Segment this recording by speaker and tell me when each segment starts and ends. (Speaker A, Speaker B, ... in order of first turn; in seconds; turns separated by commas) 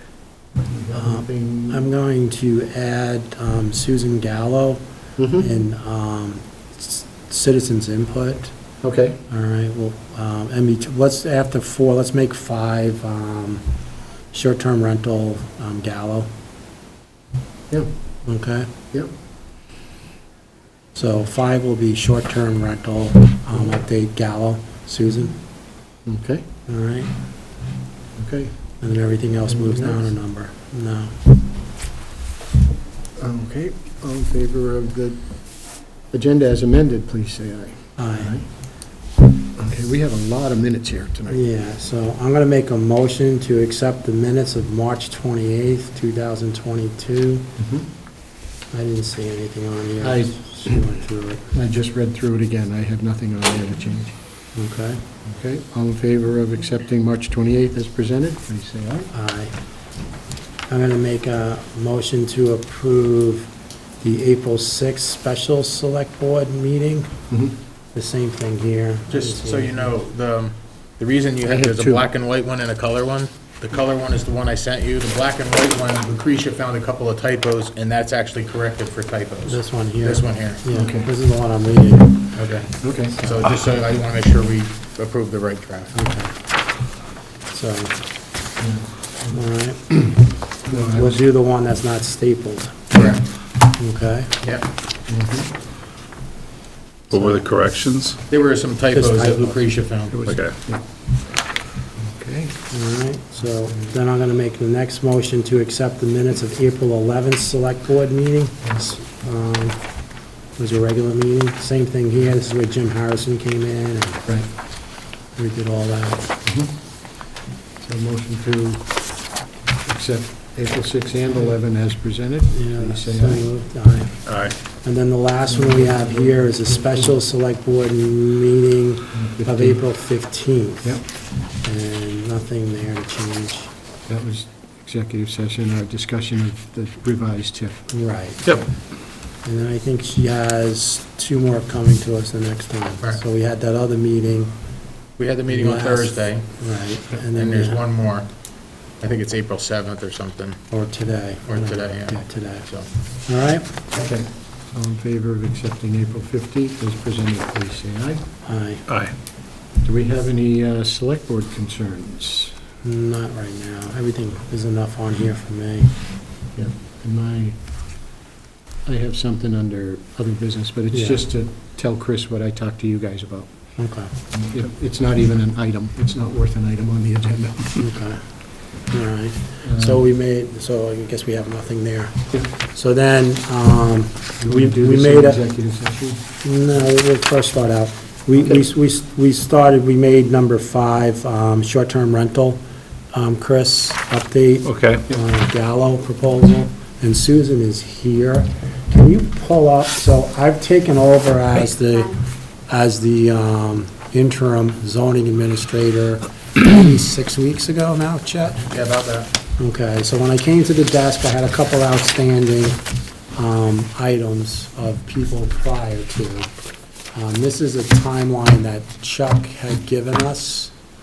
Speaker A: 0.7-1.8, Speaker B: 1.0-4.8, Speaker A: 5.2-5.5, Speaker B: 5.3-8.5, Speaker A: 8.8-9.2, Speaker B: 9.3-13.6, Speaker B: 14.3-16.3, Speaker B: 18.2-18.7, Speaker B: 20.9-25.4, Speaker A: 26.0-26.4, Speaker B: 26.7-27.2, Speaker A: 28.1-28.6, Speaker B: 28.8-31.1, Speaker A: 29.5-30.1, Speaker A: 33.2-38.7, Speaker B: 38.0-38.3, Speaker A: 39.5-41.4, Speaker B: 41.3-47.5, Speaker A: 47.6-47.9, Speaker B: 48.7-51.5, Speaker A: 50.0-50.8, Speaker A: 51.5-54.2, Speaker B: 54.5-55.0, Speaker A: 55.2-59.1, Speaker B: 59.1-59.5, Speaker B: 60.7-67.1, Speaker A: 67.3-67.5, Speaker B: 67.9-69.9, Speaker C: 69.1-80.6, Speaker A: 71.5-72.0, Speaker B: 79.5-82.5, Speaker A: 80.7-81.1, Speaker C: 82.3-85.9, Speaker A: 82.8-83.2, Speaker B: 83.1-83.5, Speaker B: 85.9-86.9, Speaker B: 87.5-88.0, Speaker A: 88.6-89.4, Speaker B: 89.3-94.3, Speaker A: 90.7-91.2, Speaker C: 92.9-93.2, Speaker A: 95.1-95.5, Speaker D: 97.1-98.2, Speaker B: 97.1-97.4, Speaker C: 98.2-100.2, Speaker B: 98.9-99.7, Speaker A: 100.1-101.4, Speaker D: 100.2-100.5, Speaker A: 102.0-102.6, Speaker B: 102.7-114.2, Speaker B: 115.3-116.3, Speaker A: 116.4-123.5, Speaker B: 122.5-133.7, Speaker D: 124.2-124.5, Speaker A: 125.5-127.1, Speaker A: 129.1-129.8, Speaker A: 134.1-137.9, Speaker B: 137.9-144.5, Speaker C: 145.2-146.5, Speaker B: 145.5-147.8, Speaker C: 147.3-150.6, Speaker B: 150.7-153.8, Speaker C: 151.4-152.9, Speaker A: 153.9-158.2, Speaker B: 158.4-158.9, Speaker D: 158.9-159.1, Speaker A: 159.8-162.5, Speaker B: 162.8-166.1, Speaker A: 166.5-167.6, Speaker A: 168.8-177.8, Speaker B: 170.9-171.2, Speaker B: 173.8-174.3, Speaker B: 177.8-185.4, Speaker A: 179.6-180.0, Speaker A: 184.4-186.2, Speaker B: 186.4-192.6, Speaker B: 193.1-202.2, Speaker D: 194.6-195.0, Speaker B: 202.7-208.7, Speaker C: 208.7-209.3, Speaker B: 209.6-212.8, Speaker B: 213.3-216.5, Speaker B: 217.1-220.7